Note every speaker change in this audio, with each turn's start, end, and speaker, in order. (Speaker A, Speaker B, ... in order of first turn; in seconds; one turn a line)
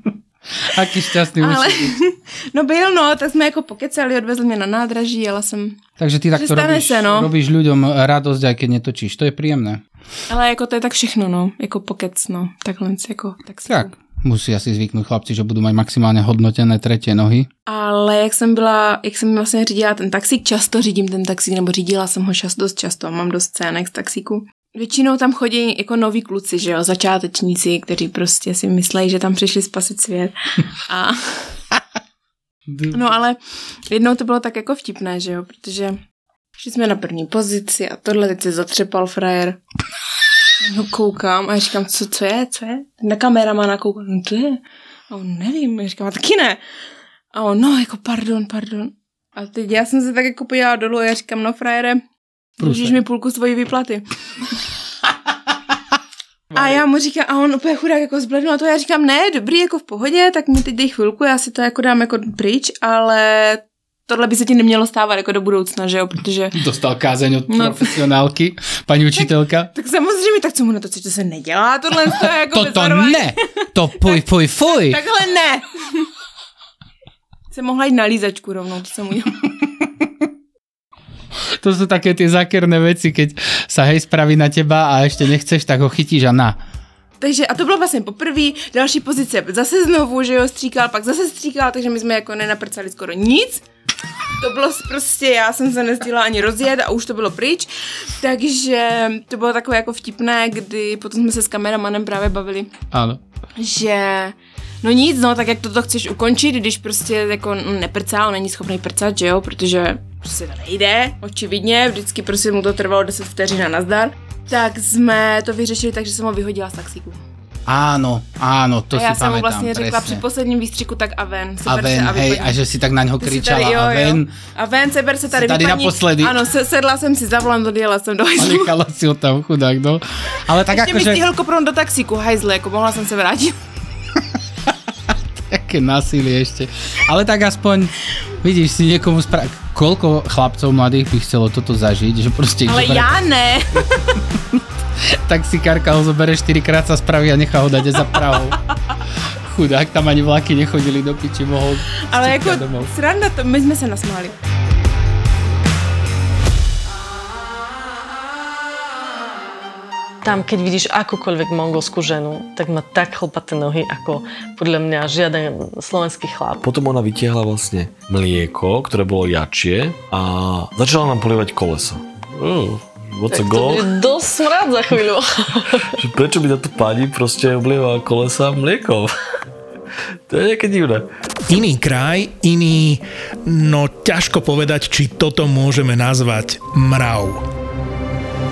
Speaker A: 0.6-2.0
Speaker B: 1.4-5.8
Speaker A: 6.0-9.8
Speaker B: 6.3-7.3
Speaker B: 10.3-13.9
Speaker A: 13.7-17.5
Speaker B: 17.7-31.5
Speaker A: 32.7-33.1
Speaker B: 32.9-36.0
Speaker B: 36.6-39.6
Speaker B: 40.6-46.6
Speaker B: 47.3-52.0
Speaker B: 52.6-54.0
Speaker A: 52.6-53.0
Speaker A: 56.5-56.9
Speaker B: 56.5-66.6
Speaker A: 66.5-69.7
Speaker B: 67.5-68.0
Speaker B: 69.1-73.3
Speaker A: 72.1-75.0
Speaker B: 74.0-76.1
Speaker B: 77.5-79.5
Speaker A: 81.5-86.6
Speaker B: 87.2-93.6
Speaker B: 94.4-102.7
Speaker A: 102.9-103.2
Speaker B: 103.6-117.2
Speaker A: 117.7-120.2
Speaker B: 118.9-122.6
Speaker A: 121.7-124.3
Speaker B: 123.2-128.8
Speaker A: 125.3-126.4
Speaker A: 128.4-131.3
Speaker B: 130.7-133.6
Speaker A: 134.7-143.1
Speaker B: 142.7-144.1
Speaker A: 143.8-148.6
Speaker A: 149.4-152.9
Speaker B: 152.1-154.4
Speaker C: 160.2-166.6
Speaker D: 166.6-173.9
Speaker C: 173.3-175.9
Speaker D: 176.0-179.1
Speaker D: 180.3-181.1
Speaker E: 181.5-187.4